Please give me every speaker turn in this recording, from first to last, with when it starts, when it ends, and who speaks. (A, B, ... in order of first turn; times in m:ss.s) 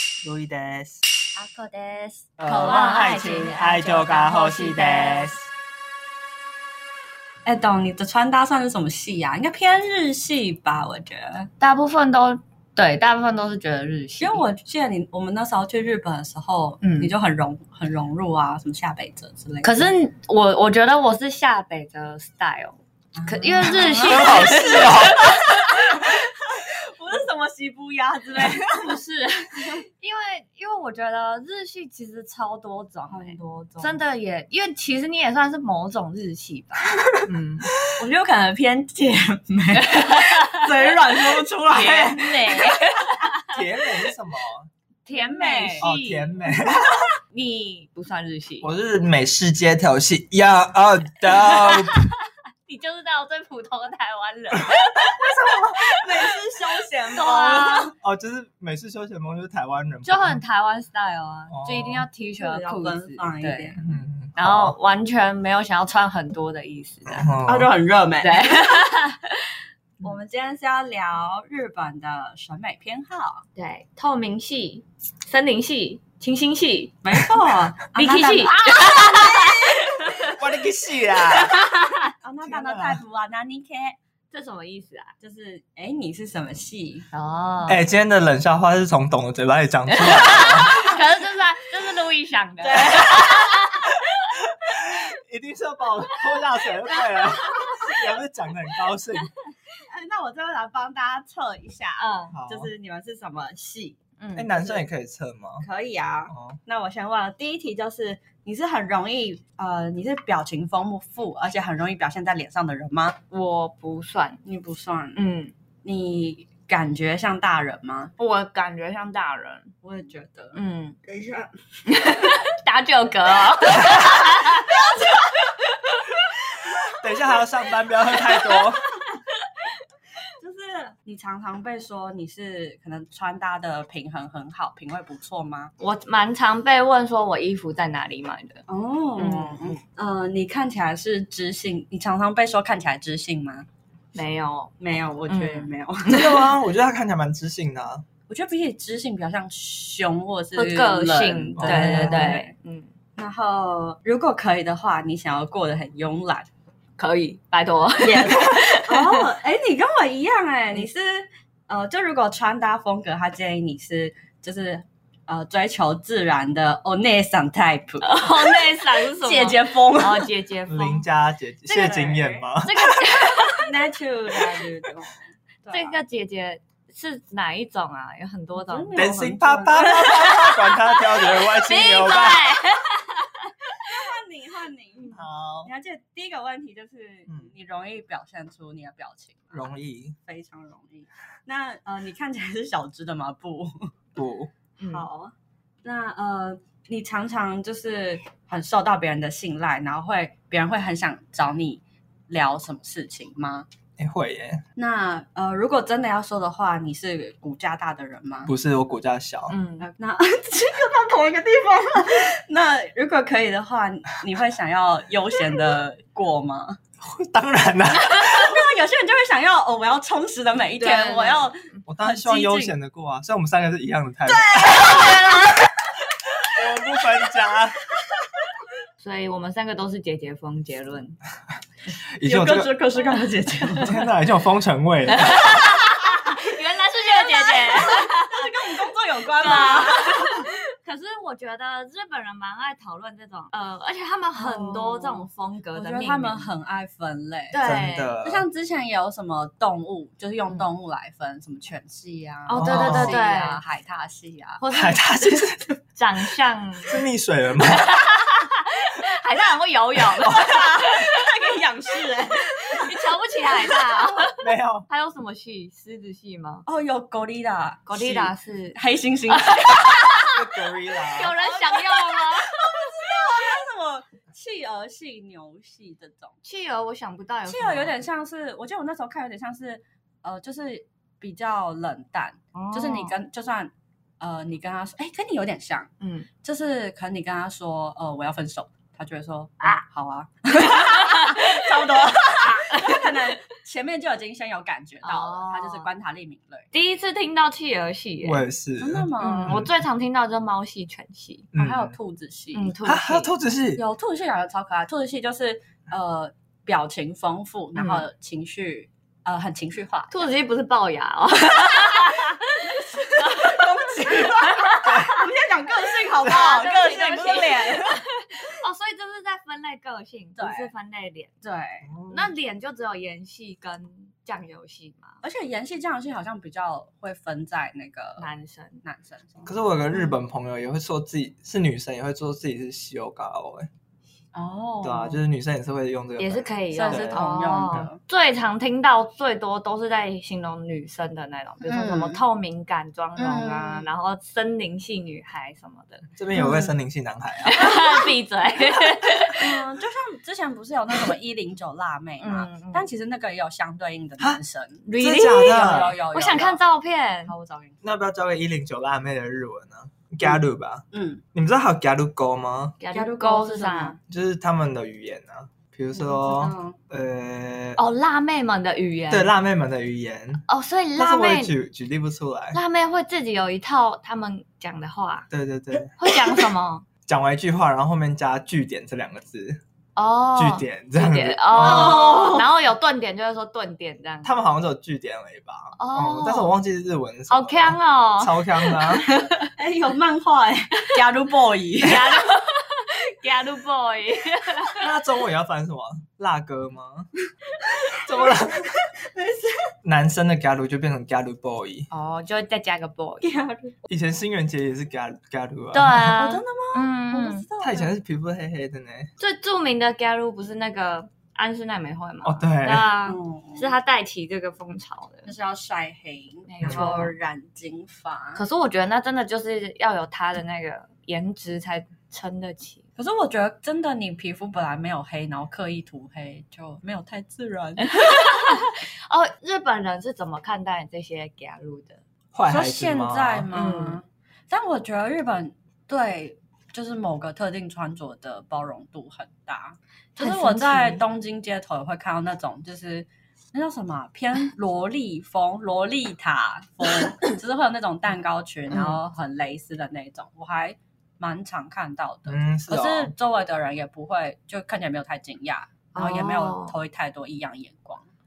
0:00.2-0:01.0 A
0:01.4-0:05.3 B
0:02.4-0:05.4 A
0:02.5-0:05.2 C
0:07.4-0:11.5 B
0:11.6-0:14.4 C
0:14.2-0:19.9 B
0:16.8-0:17.1 C
0:19.6-0:26.1 C
0:23.2-0:29.0 B
0:24.0-0:25.4 A
0:28.4-0:37.7 C
0:33.1-0:34.0 B
0:37.8-0:42.9 B
0:39.8-0:43.8 C
0:43.5-0:44.7 A
0:45.1-0:46.5 C
0:45.1-0:45.9 B
0:45.8-0:47.1 A
0:47.3-0:48.7 C
0:48.6-0:52.0 A
0:51.3-0:56.0 C
0:55.2-0:57.9 B
0:57.1-0:57.9 C
0:58.0-1:00.4 A
1:00.0-1:03.8 C
1:01.5-1:02.1 A
1:02.4-1:03.9 B
1:03.8-1:04.8 A
1:04.4-1:07.3 C
1:07.1-1:07.7 A
1:07.4-1:08.9 B
1:08.2-1:09.5 C
1:10.0-1:13.4 B
1:13.6-1:17.0 C
1:17.0-1:19.7 B
1:17.9-1:20.4 C
1:20.2-1:21.6 A
1:21.3-1:22.1 C
1:22.2-1:24.0 B
1:22.4-1:23.0 A
1:24.3-1:25.1 C
1:25.2-1:27.1 B
1:27.1-1:27.8 C
1:27.7-1:31.0 A
1:29.9-1:34.4 C
1:32.6-1:33.7 B
1:34.5-1:39.3 A
1:36.9-1:37.9 C
1:39.7-1:44.8 B
1:42.0-1:42.4 C
1:42.3-1:42.7 A
1:44.2-1:44.7 C
1:44.3-1:45.7 A
1:45.6-1:53.2 B
1:46.3-1:46.6 A
1:53.3-1:54.4 C
1:54.4-1:55.2 B
1:55.2-1:55.5 C
1:55.8-1:58.1 B
1:58.2-1:59.7 C
1:59.8-2:01.5 B
2:00.5-2:01.0 C
2:01.9-2:06.3 C
2:04.5-2:05.2 B
2:06.9-2:08.9 A
2:08.1-2:08.6 C
2:09.1-2:09.5 C
2:10.4-2:15.7 B
2:15.8-2:18.6 C
2:18.7-2:23.7 B
2:19.2-2:19.8 C
2:24.2-2:24.7 C
2:24.8-2:26.4 B
2:25.3-2:26.4 C
2:26.1-2:28.0 A
2:28.3-2:32.5 B
2:30.6-2:32.9 C
2:31.6-2:32.4 A
2:33.2-2:36.5 B
2:37.0-2:39.3 C
2:38.0-2:50.3 B
2:48.0-2:51.0 C
2:50.7-2:53.0 A
2:51.7-2:52.5 B
2:52.6-2:53.7 C
2:53.5-2:56.0 B
2:55.7-2:59.3 C
2:58.6-3:01.0 B
2:58.9-3:02.6 A
3:01.2-3:03.9 C
3:03.8-3:09.7 B
3:05.1-3:05.7 A
3:07.3-3:07.5 A
3:09.5-3:10.2 A
3:10.3-3:13.9 B
3:14.2-3:14.5 A
3:14.8-3:15.1 C
3:14.8-3:23.7 B
3:24.0-3:24.6 A
3:24.8-3:28.5 B
3:28.5-3:29.6 A
3:29.5-3:29.9 C
3:29.8-3:36.8 B
3:37.0-3:38.6 A
3:38.0-3:42.8 B
3:40.8-3:41.8 C
3:41.9-3:45.3 A
3:44.3-3:45.6 B
3:46.4-3:47.8 A
3:49.0-3:51.2 C
3:52.2-3:52.7 A
3:52.2-3:54.0 B
3:53.8-3:55.7 A
3:55.1-3:58.4 C
3:57.0-4:00.5 B
3:59.4-4:06.5 C
4:04.4-4:07.7 B
4:07.5-4:08.1 C
4:07.6-4:08.5 A
4:08.2-4:14.6 B
4:12.5-4:13.6 C
4:12.6-4:13.2 A
4:14.6-4:15.0 C
4:14.7-4:15.8 A
4:16.0-4:17.0 C
4:16.9-4:18.0 A
4:17.7-4:21.2 C
4:20.2-4:20.6 A
4:20.2-4:24.2 B
4:22.5-4:26.6 C
4:24.4-4:24.9 A
4:26.7-4:30.4 B
4:27.9-4:30.4 C
4:30.3-4:31.4 A
4:31.0-4:32.9 C
4:31.2-4:36.3 B
4:36.4-4:38.0 C
4:37.5-4:45.9 B
4:42.5-4:43.2 C
4:46.0-4:46.3 C
4:46.4-4:56.7 B
4:50.6-4:53.2 C
4:55.0-4:55.9 C
4:56.7-4:58.4 C
4:58.2-4:59.8 A
4:58.8-4:59.6 B
4:59.2-5:01.5 C
5:01.5-5:02.0 A
5:01.5-5:02.8 B
5:02.5-5:03.3 C
5:02.8-5:03.8 A
5:03.8-5:10.3 B
5:07.8-5:08.1 C
5:10.1-5:15.2 C
5:12.7-5:18.0 B
5:14.8-5:15.2 A
5:16.2-5:21.3 C
5:20.4-5:20.7 B
5:21.4-5:21.9 B
5:21.9-5:22.3 A
5:22.1-5:25.2 C
5:25.2-5:28.3 B
5:28.2-5:28.8 C
5:28.8-5:29.5 B
5:29.4-5:33.7 A
5:34.3-5:35.2 B
5:34.8-5:37.2 A
5:36.2-5:46.7 C
5:36.7-5:38.0 B
5:41.6-5:42.2 B
5:43.2-5:43.9 B
5:46.2-5:47.8 A
5:47.4-5:49.6 C
5:49.4-5:56.6 B
5:52.2-5:52.9 C
5:54.9-5:57.3 C
5:55.0-5:56.0 A
5:57.3-5:57.8 B
5:57.8-6:02.8 A
6:00.9-6:01.2 B
6:02.8-6:04.0 C
6:02.9-6:04.0 B
6:04.1-6:07.8 A
6:06.0-6:06.8 B
6:07.8-6:09.3 C
6:09.1-6:10.4 A
6:10.5-6:11.5 C
6:11.0-6:12.6 A
6:12.5-6:15.3 C
6:15.3-6:15.9 A
6:16.0-6:16.9 C
6:17.1-6:19.6 A
6:20.0-6:24.3 C
6:20.4-6:22.2 A
6:21.5-6:22.5 B
6:24.2-6:29.1 A
6:25.8-6:26.6 C
6:27.3-6:29.5 C
6:29.4-6:32.1 B
6:31.8-6:34.9 C
6:34.8-6:37.1 A
6:37.6-6:38.2 B
6:37.9-6:38.7 A
6:39.0-6:39.7 B
6:39.8-6:41.9 A
6:41.9-6:43.5 C
6:43.2-6:43.7 B
6:43.9-6:46.2 A
6:45.7-6:47.5 C
6:46.1-6:47.9 B
6:47.6-6:49.1 A
6:49.2-6:55.3 C
6:52.2-6:52.9 A
6:53.0-6:53.8 B
6:55.3-6:58.4 B
6:56.5-6:57.1 C
6:56.6-6:56.9 A
6:58.4-7:02.8 C
7:03.0-7:08.2 B
7:07.8-7:12.0 C
7:12.3-7:13.5 A
7:12.5-7:38.1 B
7:13.5-7:14.0 C
7:20.2-7:21.0 C
7:28.7-7:29.0 C
7:32.3-7:33.1 A
7:35.9-7:36.8 C